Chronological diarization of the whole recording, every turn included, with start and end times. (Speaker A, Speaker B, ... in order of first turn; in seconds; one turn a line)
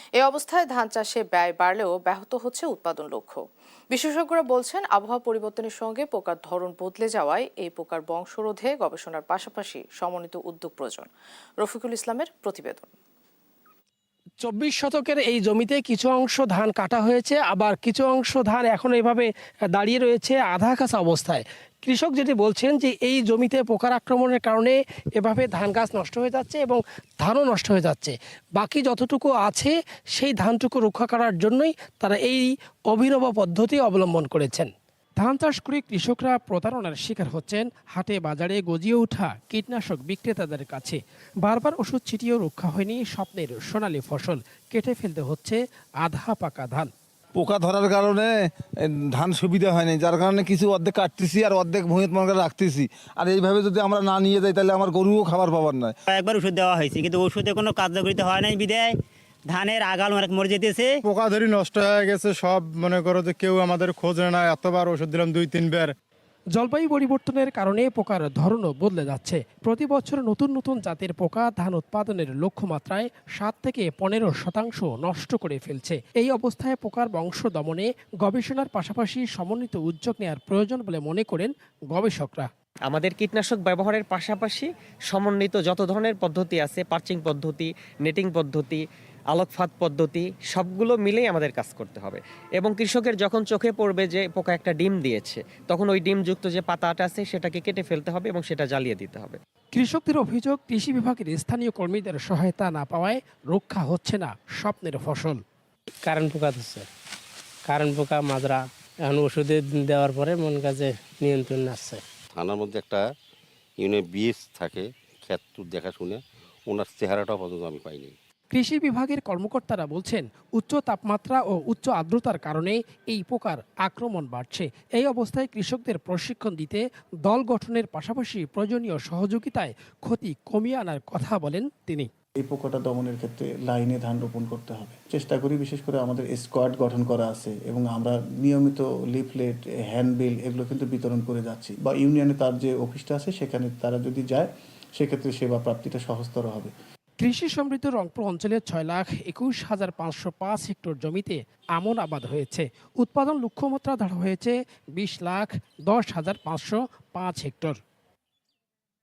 Speaker A: 0.2-3.4
Speaker A: 3.9-11.1
Speaker A: 11.6-12.9
Speaker B: 14.4-46.9
Speaker C: 47.4-48.4
Speaker C: 49.1-55.9
Speaker D: 56.1-59.0
Speaker D: 59.5-61.0
Speaker E: 61.1-65.9
Speaker B: 66.5-82.5
Speaker F: 82.9-99.4
Speaker B: 99.7-105.4
Speaker G: 106.0-106.9
Speaker G: 107.7-112.0
Speaker H: 112.3-113.0
Speaker H: 113.8-118.1
Speaker B: 118.5-132.1
Speaker I: 132.4-146.7
Speaker B: 147.2-157.8